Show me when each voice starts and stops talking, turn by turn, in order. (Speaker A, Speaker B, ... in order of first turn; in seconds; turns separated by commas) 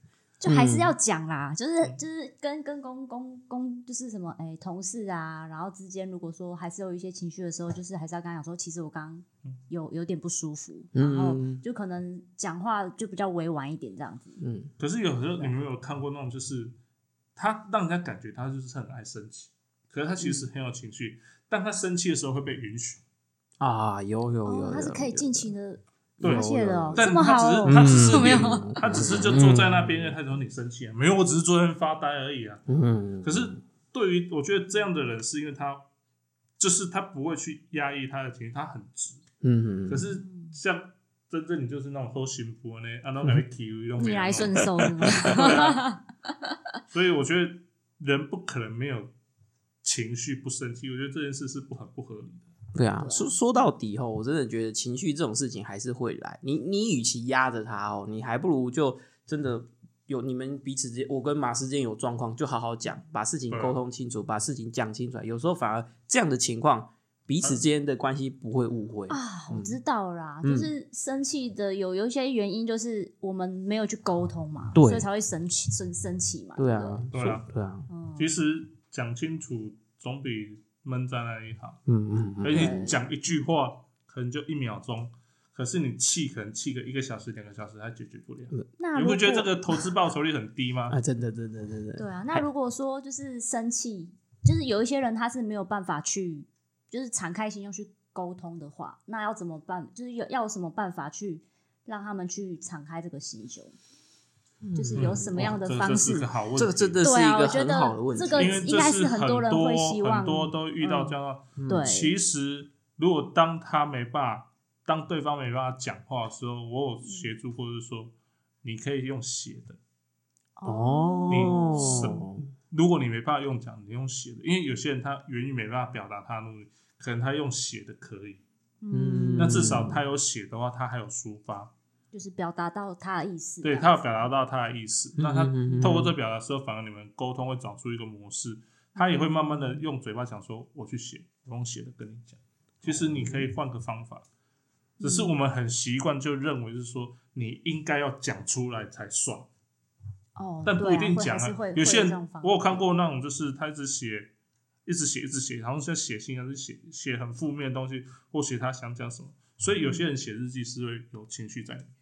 Speaker A: 0.4-14.4, Speaker B: 0.4-0.9, Speaker B: 10.9-11.6, Speaker B: 14.4-14.7, Speaker C: 14.8-16.7, Speaker C: 17.4-23.0, Speaker B: 20.2-20.5, Speaker B: 23.6-25.5, Speaker A: 24.4-28.8, Speaker B: 26.2-27.0, Speaker C: 26.2-32.6, Speaker B: 27.6-29.9, Speaker B: 32.7-33.6, Speaker C: 33.2-35.9, Speaker C: 36.6-39.2, Speaker B: 39.4-40.0, Speaker C: 39.9-45.8, Speaker A: 40.1-40.5, Speaker A: 44.0-46.5, Speaker C: 46.9-49.1, Speaker C: 49.8-52.5, Speaker B: 52.7-69.8, Speaker A: 53.0-53.4, Speaker C: 63.5-63.8, Speaker A: 69.1-77.0, Speaker B: 70.4-70.7, Speaker B: 74.7-75.1, Speaker B: 76.5-77.9, Speaker C: 77.1-77.4, Speaker A: 77.9-78.3, Speaker C: 78.2-81.8, Speaker B: 81.9-82.9, Speaker C: 82.4-91.0, Speaker A: 82.5-83.0, Speaker A: 88.8-89.7, Speaker B: 90.9-92.5, Speaker A: 92.0-103.8, Speaker B: 104.6-105.6, Speaker A: 104.7-106.3, Speaker C: 105.0-107.0, Speaker B: 106.5-108.7, Speaker A: 107.0-111.2, Speaker C: 108.3-118.1, Speaker B: 111.6-111.9, Speaker A: 111.7-112.2, Speaker A: 117.0-117.3, Speaker C: 118.6-119.8, Speaker A: 120.6-122.2, Speaker B: 120.6-122.5, Speaker C: 121.3-128.4, Speaker A: 128.8-129.9, Speaker B: 128.9-130.0, Speaker C: 129.4-131.7, Speaker A: 132.1-134.0, Speaker C: 133.6-144.2, Speaker B: 135.2-136.1, Speaker A: 139.0-139.8, Speaker B: 142.8-143.5, Speaker A: 145.0-145.3, Speaker C: 145.0-149.5, Speaker A: 150.3-152.8, Speaker C: 150.6-154.3, Speaker C: 154.8-161.9, Speaker A: 159.8-160.1